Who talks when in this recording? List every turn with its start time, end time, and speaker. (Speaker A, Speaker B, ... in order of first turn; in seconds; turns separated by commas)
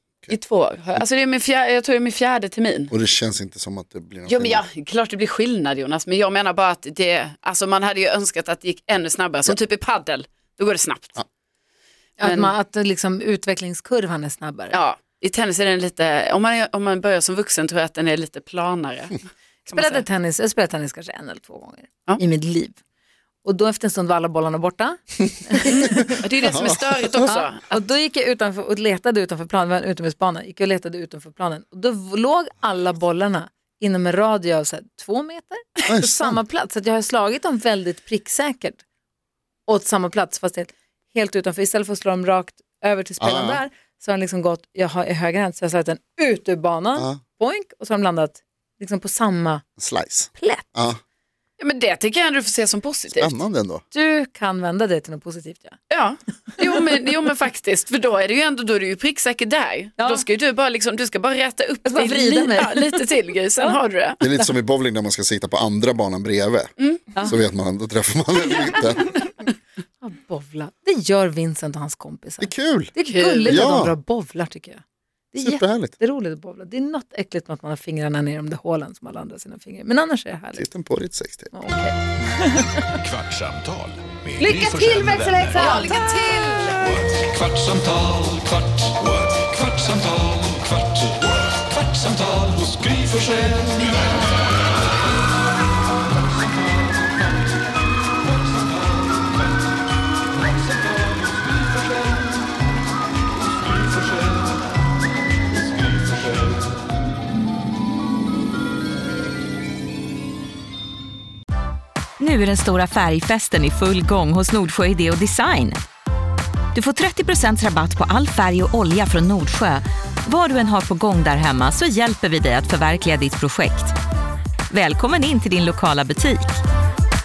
Speaker A: 0.3-2.9, Speaker B: 2.9-4.6, Speaker A: 4.3-11.2, Speaker C: 12.2-14.8, Speaker A: 12.2-12.5, Speaker A: 14.7-20.0, Speaker C: 19.7-22.8, Speaker C: 23.4-26.2, Speaker A: 25.6-27.8, Speaker B: 26.5-26.8, Speaker C: 27.2-38.8, Speaker B: 35.9-36.4, Speaker C: 39.7-49.6, Speaker B: 43.2-43.6, Speaker B: 49.8-51.0, Speaker C: 50.4-50.7, Speaker A: 51.6-53.4, Speaker B: 53.1-53.8, Speaker C: 53.9-55.8, Speaker A: 55.9-64.2, Speaker C: 60.0-60.2, Speaker C: 61.9-63.0, Speaker B: 64.2-69.1, Speaker C: 70.0-80.7, Speaker B: 72.4-72.9, Speaker A: 73.0-73.6, Speaker B: 73.4-74.0, Speaker B: 75.4-75.9, Speaker B: 80.5-81.5, Speaker C: 81.5-82.0, Speaker D: 83.0-85.8, Speaker C: 84.4-86.0, Speaker A: 85.5-86.8, Speaker D: 86.8-90.6, Speaker D: 91.9-93.9, Speaker E: 112.2-115.8, Speaker E: 116.8-123.9, Speaker E: 124.7-126.6